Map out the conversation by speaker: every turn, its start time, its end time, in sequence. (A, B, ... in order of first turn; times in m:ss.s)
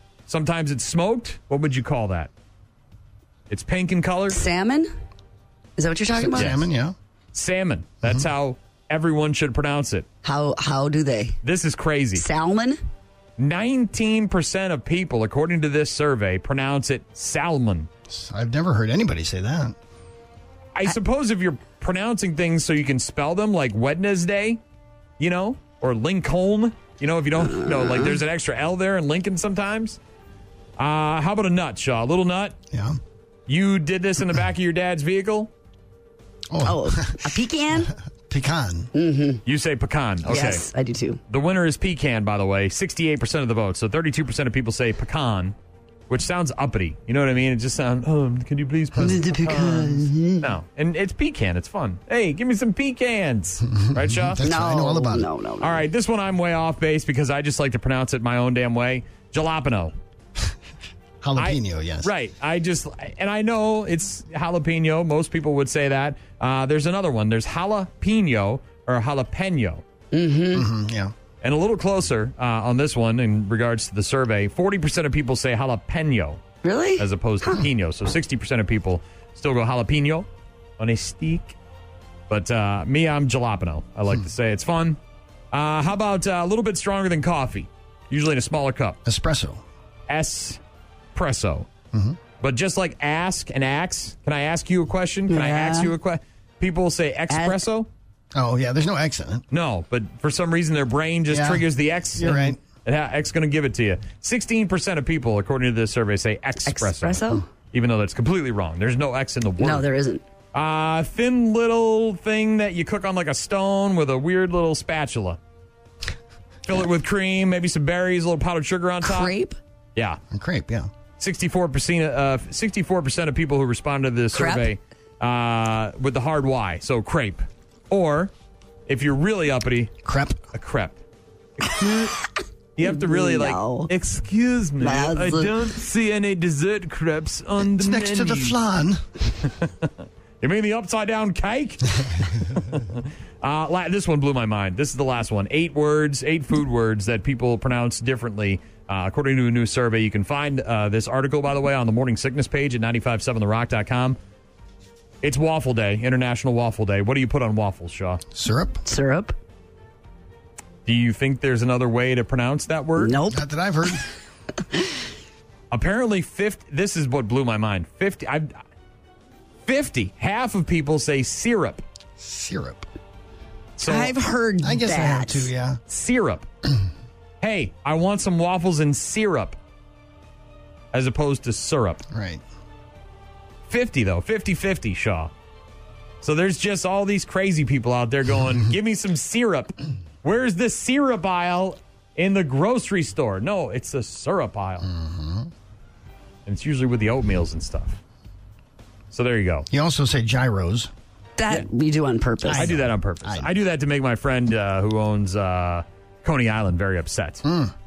0:00.3-0:02.3 A
0:03.5-0:04.4 A
0:04.3-0:04.9 B
0:05.8-0:06.6 B
0:06.1-0:07.0 C
0:06.4-0:06.6 A
0:07.3-0:10.1 A
0:10.2-0:11.4 B
0:11.4-0:12.2 A
0:12.2-0:12.8 B
0:13.4-0:17.9 A
0:18.1-0:19.8 C
0:20.8-0:24.6 A
0:25.2-0:30.0 A
0:27.5-0:28.1 B
0:30.8-0:32.6 A
0:32.7-0:33.0 C
0:33.5-0:35.5 A
0:36.5-0:37.3 C
0:36.6-0:37.9 B
0:38.3-0:38.9 C
0:38.9-0:39.4 B
0:39.5-0:40.6 A
0:40.3-0:41.2 B
0:41.3-0:45.6 A
0:46.1-0:54.4 A
0:49.0-0:50.5 B
0:53.7-0:55.3 C
0:54.4-0:55.8 B
0:55.6-0:59.9 A
1:01.2-1:02.1 C
1:01.4-1:09.8 A
1:10.1-1:10.7 B
1:10.5-1:11.1 C
1:11.4-1:16.4 A
1:16.6-1:17.6 B
1:17.0-1:20.3 A
1:20.8-1:21.6 A
1:22.3-1:25.0 A
1:25.5-1:29.0 A
1:29.0-1:29.6 C
1:30.1-1:30.6 A
1:31.2-1:31.7 A
1:31.9-1:32.2 C
1:32.4-1:37.9 A
1:35.3-1:35.9 B
1:37.3-1:37.6 B
1:38.4-1:39.4 C
1:39.5-1:49.9 A
1:41.3-1:41.6 C
1:42.2-1:42.6 C
1:46.7-1:47.4 B
1:49.6-1:50.2 B
1:50.5-1:55.4 A
1:56.7-1:59.3 A
1:59.0-1:59.6 B
2:00.3-2:00.9 C
2:01.2-2:08.3 A
2:04.3-2:04.7 B
2:08.9-2:10.0 A
2:10.0-2:10.4 C
2:10.5-2:11.0 A
2:11.7-2:12.1 A
2:11.8-2:12.1 B
2:12.8-2:18.6 A
2:12.8-2:13.9 B
2:14.8-2:15.5 B
2:17.6-2:19.0 C
2:19.5-2:19.9 A
2:20.4-2:34.2 A
2:35.2-2:38.2 A
2:38.4-2:38.8 C
2:38.8-2:39.3 B
2:40.9-2:43.2 A
2:43.0-2:43.4 B
2:43.3-2:44.0 C
2:45.7-2:48.6 A
2:49.6-2:51.8 A
2:52.2-2:52.8 C
2:53.8-2:54.2 A
2:53.8-2:55.5 B
2:54.6-2:55.8 C
2:55.9-2:56.5 A
2:57.4-2:59.6 A
3:00.9-3:02.0 A
3:02.1-3:02.4 C
3:03.7-3:05.3 A
3:06.2-3:14.9 A
3:14.8-3:15.5 C
3:16.5-3:18.0 A
3:19.1-3:19.7 A
3:19.7-3:20.9 C
3:21.4-3:22.7 B
3:22.5-3:23.5 C
3:22.6-3:27.4 A
3:27.4-3:27.7 C